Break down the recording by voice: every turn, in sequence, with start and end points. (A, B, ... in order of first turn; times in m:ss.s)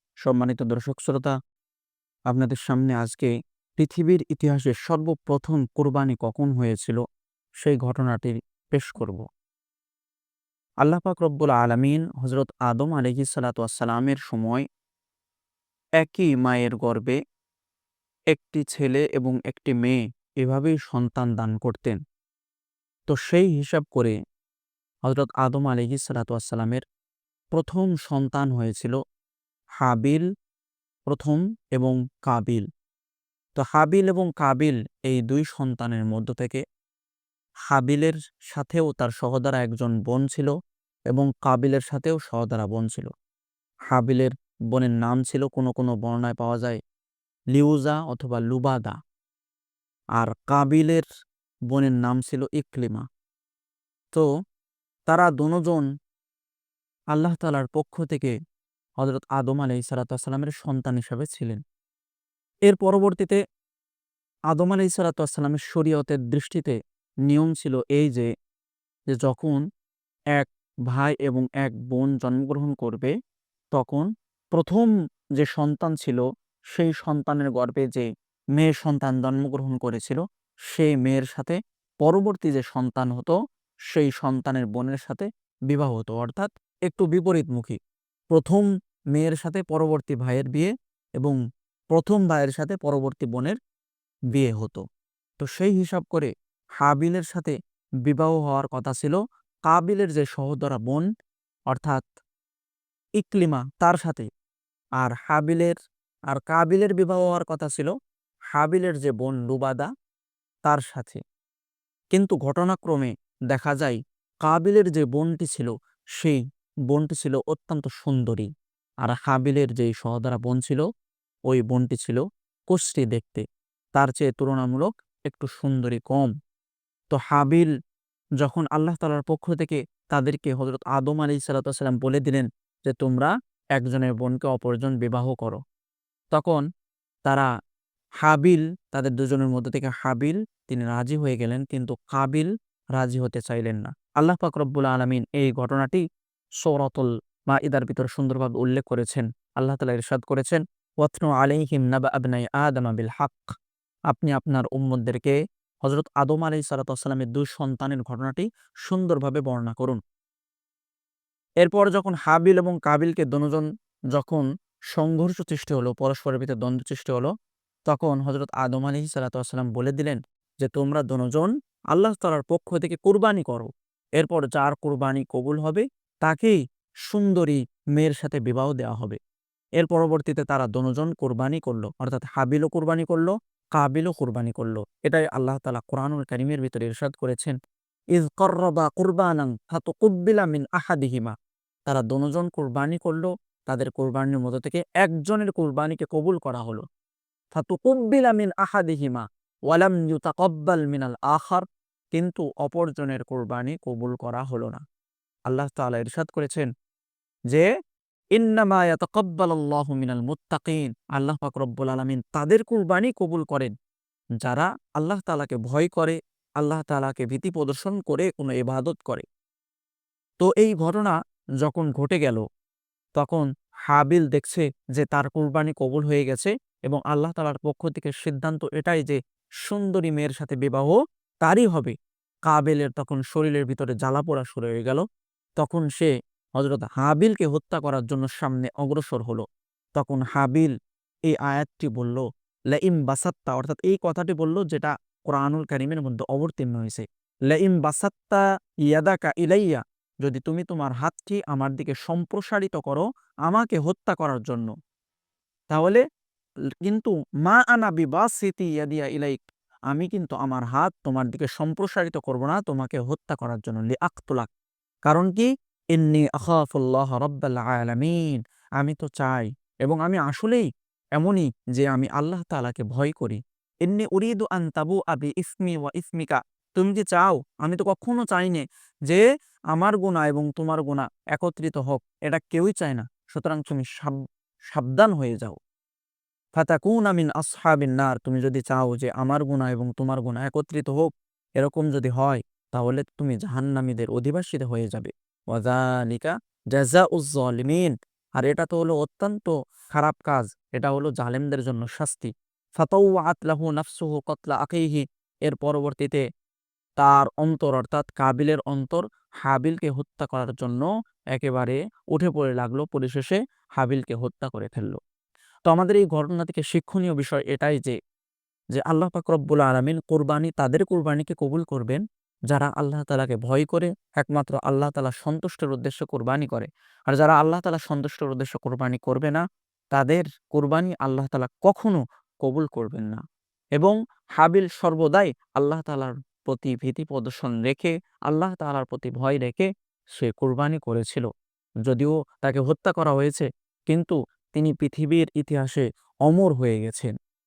0:00.2-0:01.4 A
0:02.3-0:07.0 A
0:07.6-0:09.2 A
0:10.8-0:14.6 A
0:16.0-0:17.2 A
0:18.3-0:22.0 A
0:23.1-0:24.2 A
0:25.0-0:26.8 A
0:27.5-0:29.0 A
0:29.8-0:30.2 A
0:31.1-0:32.6 A
0:33.6-0:36.6 A
0:37.7-0:40.5 A
0:41.1-0:43.1 A
0:43.9-0:46.8 A
0:47.5-0:49.0 A
0:50.2-0:51.0 A
0:51.7-0:53.0 A
0:55.1-0:55.8 A
0:57.1-0:58.3 A
0:59.0-1:01.6 A
1:02.7-1:03.4 A
1:04.5-1:06.8 A
1:07.3-1:08.3 A
1:09.1-1:09.6 A
1:10.3-1:13.1 A
1:13.7-1:20.2 A
1:20.7-1:23.4 A
1:23.9-1:27.8 A
1:28.3-1:31.4 A
1:31.9-1:33.6 A
1:34.3-1:34.8 A
1:35.4-1:37.5 A
1:38.1-1:41.0 A
1:41.7-1:42.1 A
1:43.2-1:44.3 A
1:45.0-1:45.8 A
1:46.3-1:47.9 A
1:48.5-1:49.9 A
1:50.6-1:51.2 A
1:52.1-1:58.5 A
1:59.0-2:00.8 A
2:01.5-2:06.3 A
2:07.1-2:07.7 A
2:08.4-2:15.6 A
2:16.3-2:16.6 A
2:18.2-2:26.0 A
2:26.6-2:33.5 A
2:34.1-2:40.0 A
2:41.6-2:47.3 A
2:47.9-2:56.6 A
2:57.1-2:59.2 A
2:59.8-3:07.6 A
3:08.2-3:11.4 A
3:11.9-3:16.8 A
3:17.5-3:24.8 A
3:25.5-3:26.7 A
3:28.4-3:33.7 A
3:34.4-3:39.2 A
3:40.4-3:42.4 A
3:43.2-3:51.9 A
3:52.5-3:55.0 A
3:55.6-4:00.7 A
4:01.3-4:14.7 A
4:15.7-4:16.0 A
4:16.8-4:19.4 A
4:19.9-4:24.5 A
4:25.1-4:30.7 A
4:31.2-4:39.2 A
4:39.7-4:44.2 A
4:44.7-4:45.6 A
4:46.6-5:06.2 A
5:07.0-5:15.0 A
5:15.7-5:18.0 A
5:18.7-5:33.2 A
5:33.8-5:41.3 A
5:41.9-5:47.1 A